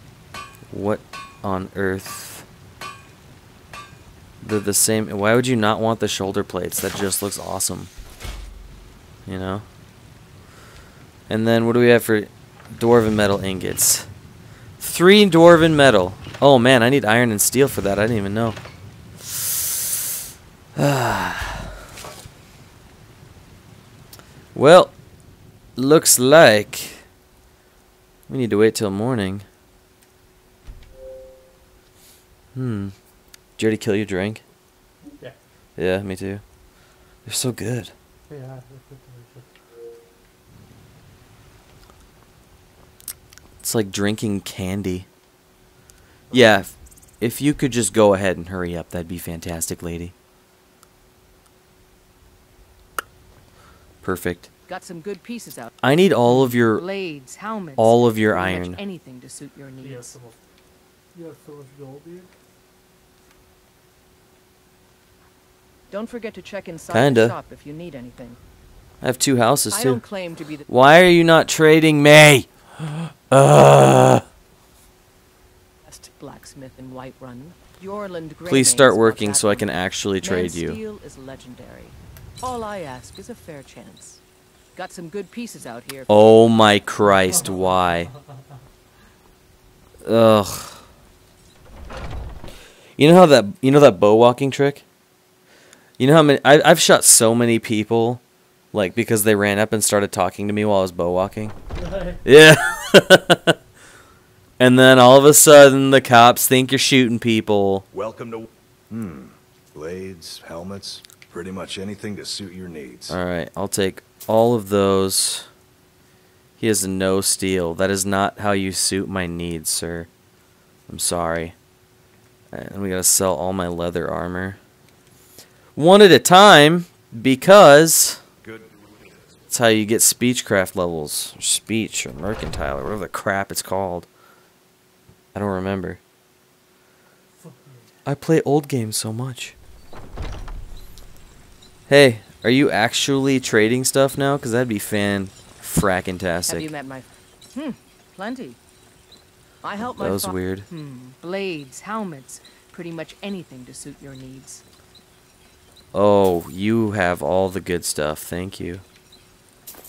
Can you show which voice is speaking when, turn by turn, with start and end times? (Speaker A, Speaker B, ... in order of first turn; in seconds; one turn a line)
Speaker A: 0.7-2.5
Speaker A: 4.4-7.9
Speaker A: 9.3-9.7
Speaker A: 11.3-14.1
Speaker A: 14.8-18.6
Speaker A: 19.2-19.8
Speaker A: 20.8-21.7
Speaker A: 24.5-24.9
Speaker A: 25.8-27.1
Speaker A: 28.3-29.5
Speaker A: 32.5-33.0
Speaker A: 33.6-34.4
Speaker A: 35.8-36.4
Speaker A: 37.3-37.9
Speaker B: 38.3-39.5
Speaker A: 43.6-45.1
Speaker A: 46.3-50.1
Speaker A: 54.0-54.5
Speaker C: 54.7-55.7
Speaker A: 55.8-56.8
Speaker C: 56.3-60.1
Speaker A: 57.8-58.8
Speaker B: 59.8-60.4
Speaker B: 61.1-62.3
Speaker C: 65.9-68.4
Speaker A: 66.9-67.4
Speaker A: 69.0-70.0
Speaker C: 69.7-70.7
Speaker A: 70.7-74.2
Speaker C: 75.8-79.7
Speaker A: 78.5-80.8
Speaker C: 80.2-84.2
Speaker C: 84.8-86.1
Speaker A: 86.1-88.1
Speaker A: 90.0-90.8
Speaker A: 93.0-94.8
Speaker A: 96.0-98.2
Speaker A: 98.7-101.6
Speaker B: 101.8-102.2
Speaker A: 102.2-103.6
Speaker A: 104.6-107.8
Speaker D: 107.9-113.2
Speaker A: 113.1-115.5
Speaker A: 116.6-120.1
Speaker A: 120.9-121.6
Speaker A: 122.5-124.6
Speaker A: 125.8-128.2
Speaker D: 128.4-129.1
Speaker A: 129.5-134.1
Speaker A: 135.3-136.0
Speaker B: 137.4-137.9
Speaker A: 138.1-139.6
Speaker A: 141.9-146.7
Speaker C: 146.5-148.6
Speaker C: 149.6-154.6
Speaker A: 149.9-150.7
Speaker A: 155.9-158.8